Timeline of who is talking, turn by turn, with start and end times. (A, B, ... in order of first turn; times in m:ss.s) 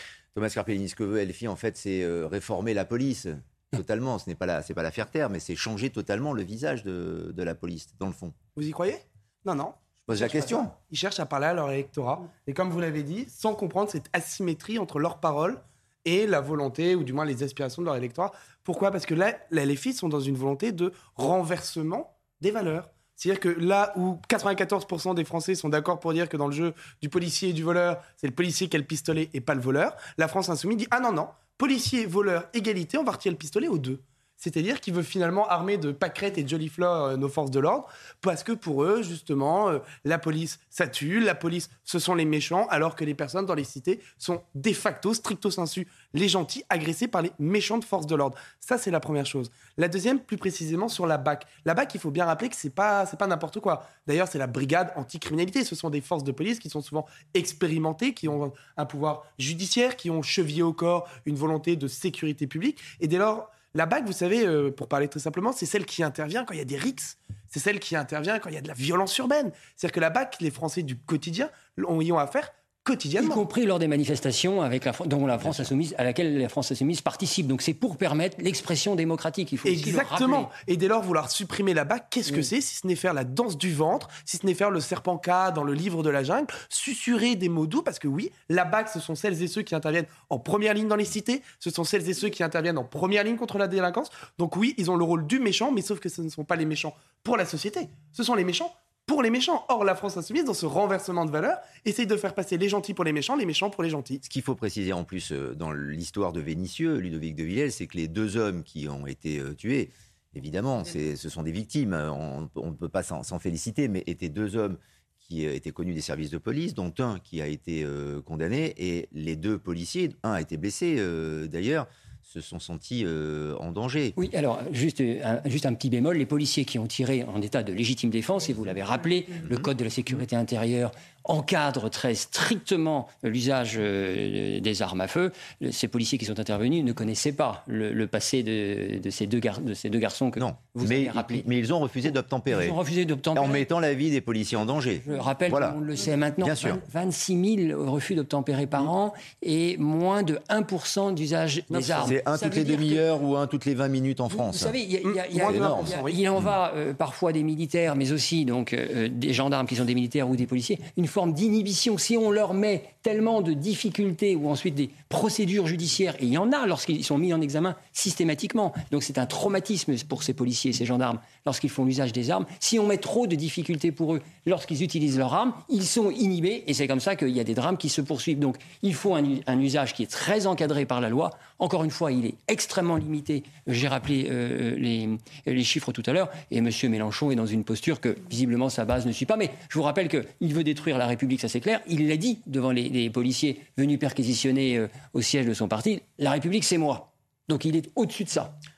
0:00.3-0:08.4 A
0:08.6-1:13.4 B
0:10.1-0:10.7 A
1:13.2-1:20.5 C
1:15.4-1:15.7 A
1:19.6-1:44.2 B
1:44.2-2:04.1 A
2:04.2-2:21.4 C
2:09.4-2:09.7 A
2:20.4-2:22.8 A
2:22.5-2:23.6 C
2:23.3-2:25.8 A
2:25.0-2:33.0 C
2:26.4-2:26.8 A
2:31.7-2:32.1 B
2:32.0-2:34.7 A
2:34.3-3:18.5 C
2:35.0-2:36.2 B
2:35.4-2:36.5 A